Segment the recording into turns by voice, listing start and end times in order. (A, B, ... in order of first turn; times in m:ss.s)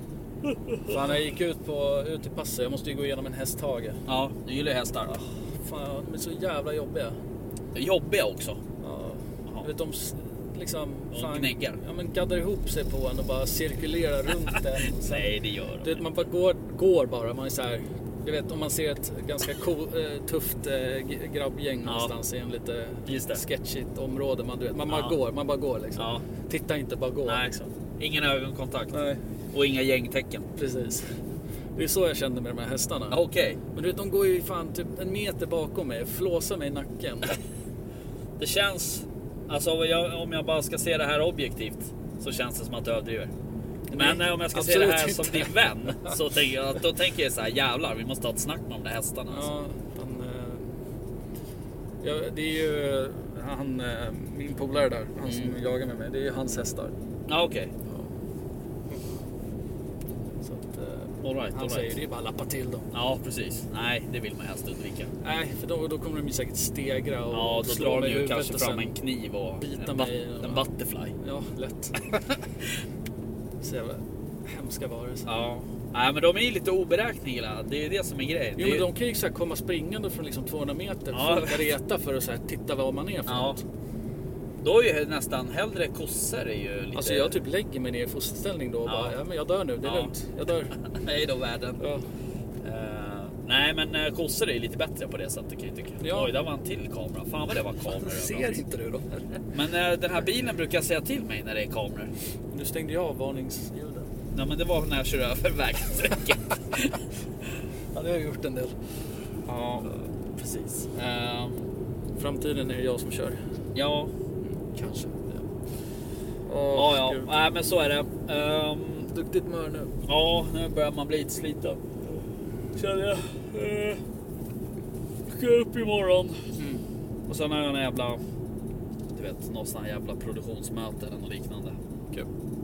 0:00.4-0:01.0 A
0:00.8-0:04.0 B
0:04.1-0:05.3 A
0:05.6-0:07.2 B
0:07.7-0:08.6 A
0:08.8-0:27.7 B
0:11.1-0:11.8 A
0:15.0-0:16.0 A
0:21.8-0:22.1 A
0:23.0-0:23.4 A
0:24.9-0:25.1 A
0:26.0-0:26.2 A
0:27.2-0:28.9 A
0:28.9-0:29.2 B
0:29.5-0:30.5 A
0:30.5-0:31.1 B
0:31.7-0:33.2 B
0:33.1-0:33.6 A
0:33.7-0:37.4 B
0:38.4-0:43.3 A
0:43.9-0:46.2 B
0:43.9-0:49.5 A
0:49.3-0:50.7 B
0:52.0-0:56.9 B
0:55.3-0:55.5 A
0:57.3-0:57.7 A
1:00.4-1:02.9 B
1:01.2-1:01.9 A
1:02.9-1:05.1 A
1:05.2-1:08.9 B
1:07.3-1:11.1 A
1:09.6-1:12.1 B
1:13.6-1:15.3 B
1:15.2-1:18.8 A
1:18.6-1:23.6 B
1:21.1-1:21.6 A
1:23.3-1:23.6 A
1:24.6-1:27.4 A
1:26.9-1:30.7 B
1:28.8-1:29.1 A
1:29.8-1:30.1 A
1:30.8-1:31.8 A
1:31.8-1:32.0 B
1:32.6-1:38.6 A
1:36.0-1:36.3 B
1:37.9-1:39.4 B
1:39.5-1:42.1 A
1:42.5-1:44.1 B
1:44.3-1:47.0 A
1:47.9-1:48.7 B
1:49.4-1:51.7 A
1:52.2-1:53.4 B
1:53.7-1:54.1 A
1:54.7-1:55.4 A
1:56.4-1:57.3 B
1:56.7-1:59.1 A
1:59.1-1:59.9 B
2:00.0-2:01.8 A
2:02.8-2:04.0 A
2:05.3-2:06.5 A
2:06.6-2:06.8 B
2:07.3-2:08.2 A
2:09.1-2:11.8 A